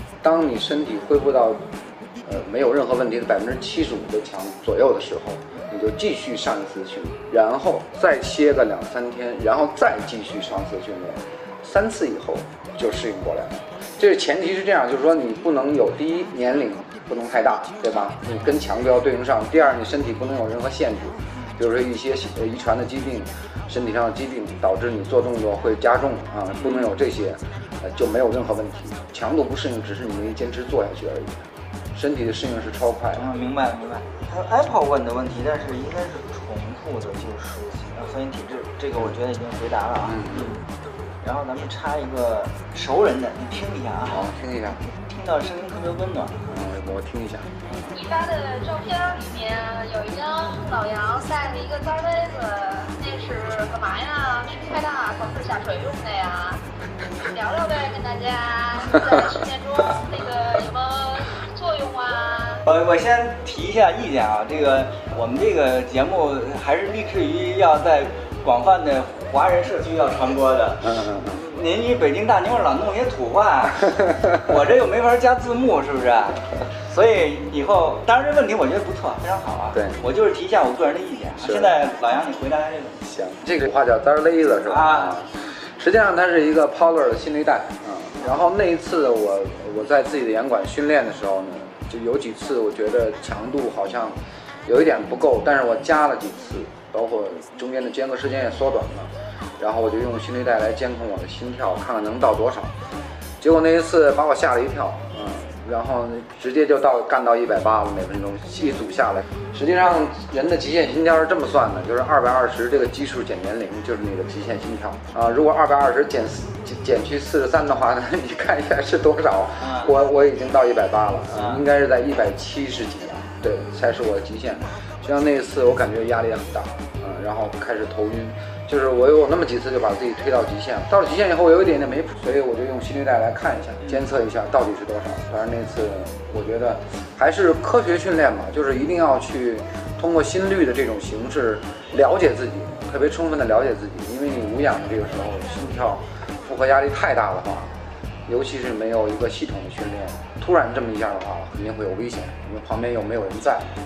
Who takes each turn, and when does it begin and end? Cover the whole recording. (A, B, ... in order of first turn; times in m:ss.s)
0:00.2-0:33.3 A
0:21.3-0:21.6 B
0:26.5-0:26.9 B
0:33.1-0:40.6 B
0:40.0-0:40.5 A
0:41.2-0:44.3 B
0:44.1-0:44.8 A
0:45.0-0:46.4 B
0:46.5-0:47.5 A
0:47.9-0:56.6 C
0:57.2-1:02.6 C
1:02.6-1:23.1 B
1:10.8-1:11.4 A
1:19.7-1:20.0 A
1:21.4-1:21.7 A
1:23.1-1:42.7 A
1:24.6-1:25.2 B
1:43.4-2:27.7 A
1:59.6-1:59.9 B
2:01.3-2:01.6 B
2:28.2-2:33.7 A